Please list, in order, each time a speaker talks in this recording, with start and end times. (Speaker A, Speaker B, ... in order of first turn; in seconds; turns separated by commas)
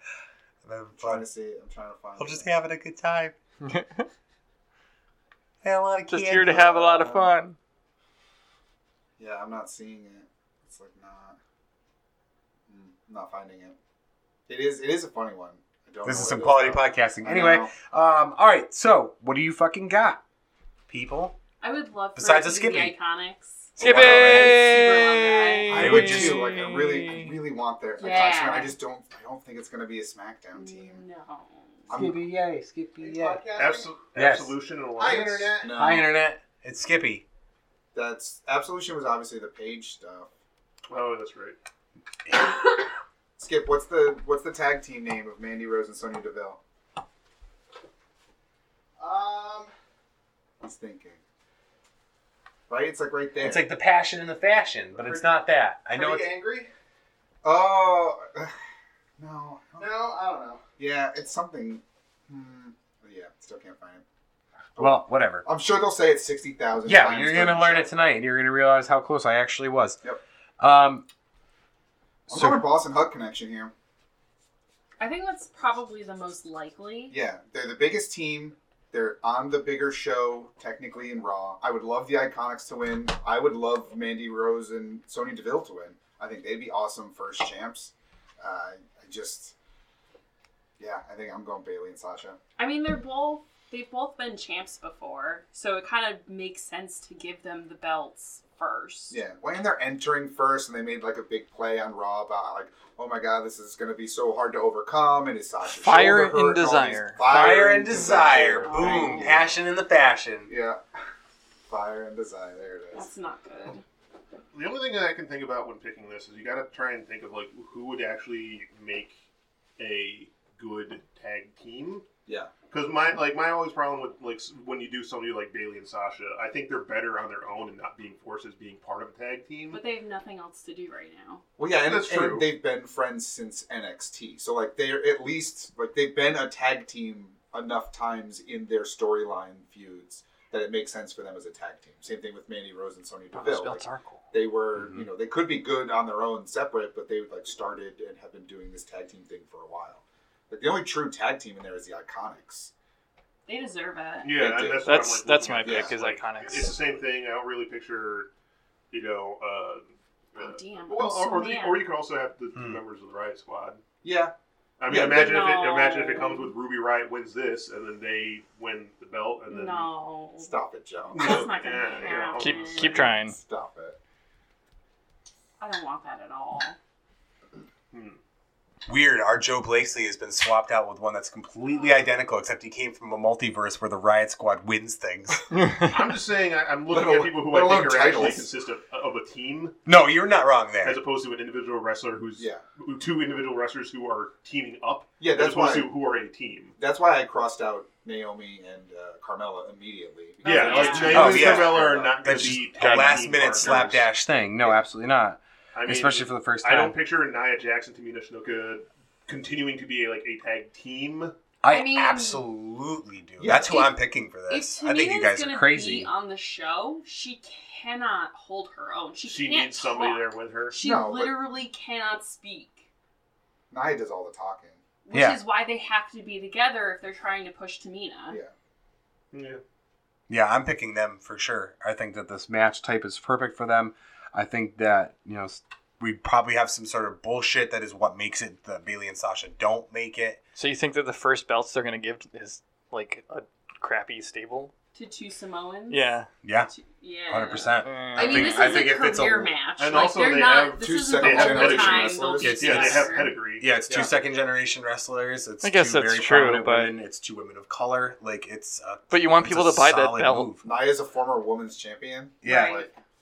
Speaker A: 0.6-1.2, Speaker B: 1.0-2.5, Speaker A: 2.2-3.3, Speaker C: 3.6-4.0, Speaker A: 5.6-6.7, Speaker C: 6.1-7.6, Speaker B: 6.5-7.3, Speaker B: 9.2-11.4, Speaker B: 12.7-13.8, Speaker B: 14.5-17.7, Speaker A: 16.0-20.2, Speaker A: 20.9-21.4, Speaker D: 21.6-25.9, Speaker A: 22.1-22.9, Speaker A: 23.8-24.6, Speaker C: 23.8-27.3, Speaker B: 25.7-31.0, Speaker A: 25.8-26.5, Speaker D: 28.0-28.8, Speaker D: 30.5-31.9, Speaker B: 31.9-32.3, Speaker A: 31.9-33.4, Speaker E: 33.0-33.9, Speaker F: 33.5-35.6, Speaker A: 34.1-34.5, Speaker E: 35.0-35.9, Speaker B: 35.6-36.1, Speaker A: 35.7-37.2, Speaker B: 37.9-40.3, Speaker F: 40.9-41.5, Speaker B: 43.4-46.6, Speaker E: 49.0-49.7, Speaker B: 50.6-51.2, Speaker B: 52.7-53.6, Speaker A: 53.4-56.3, Speaker E: 55.0-55.4, Speaker E: 55.9-56.7, Speaker B: 57.4-58.5, Speaker B: 59.2-59.9, Speaker E: 59.8-60.6, Speaker B: 60.8-64.0, Speaker B: 64.8-67.9, Speaker A: 64.8-65.5, Speaker A: 66.8-70.0, Speaker A: 70.6-71.0, Speaker B: 72.3-73.7, Speaker A: 72.3-72.6, Speaker D: 75.0-77.1, Speaker B: 77.1-89.5, Speaker B: 90.8-92.4, Speaker D: 92.6-99.2, Speaker B: 99.1-109.5, Speaker C: 105.7-107.4, Speaker A: 107.2-110.5, Speaker D: 108.6-109.4, Speaker B: 110.5-110.8, Speaker B: 111.7-113.1, Speaker D: 112.9-113.8, Speaker F: 114.5-119.2, Speaker F: 119.8-122.0, Speaker F: 122.7-129.8, Speaker D: 129.7-131.4, Speaker B: 131.6-152.7, Speaker F: 131.8-132.5, Speaker C: 143.3-144.2, Speaker D: 153.5-154.5, Speaker F: 154.2-158.3, Speaker B: 154.3-155.0, Speaker C: 154.8-156.7, Speaker B: 155.6-155.9, Speaker F: 158.9-163.8, Speaker D: 160.3-161.8, Speaker A: 162.5-162.8, Speaker B: 164.0-164.3, Speaker F: 164.8-169.9, Speaker B: 164.9-165.3, Speaker D: 164.9-166.5, Speaker D: 169.5-170.5, Speaker B: 170.4-171.5, Speaker F: 171.1-173.1, Speaker D: 171.1-173.0, Speaker C: 172.4-173.4, Speaker B: 172.9-174.0, Speaker D: 175.6-176.8, Speaker F: 177.9-178.2, Speaker A: 178.8-185.4, Speaker F: 185.8-189.8, Speaker B: 186.9-188.5, Speaker A: 189.8-191.0, Speaker F: 190.8-196.8, Speaker B: 195.2-195.9, Speaker B: 196.8-202.6, Speaker D: 200.4-201.4, Speaker F: 200.4-204.1, Speaker A: 201.1-207.0, Speaker C: 202.8-203.3, Speaker F: 205.7-211.3, Speaker A: 211.6-216.1, Speaker D: 211.7-212.4, Speaker B: 213.4-213.9, Speaker D: 213.5-213.9, Speaker D: 214.4-222.8, Speaker F: 219.2-220.8, Speaker B: 220.8-221.3, Speaker B: 223.7-224.8, Speaker D: 225.0-228.4, Speaker A: 225.1-225.4, Speaker F: 229.3-229.6, Speaker A: 230.3-240.4, Speaker C: 240.5-244.7, Speaker D: 244.9-253.4, Speaker C: 245.9-246.3, Speaker A: 246.4-246.7, Speaker A: 247.3-249.5, Speaker C: 247.8-248.8, Speaker F: 249.8-253.7, Speaker B: 250.8-253.0, Speaker A: 252.4-260.6, Speaker C: 255.6-256.9, Speaker C: 259.1-260.6, Speaker B: 260.6-262.9, Speaker A: 262.4-262.9, Speaker D: 262.4-262.9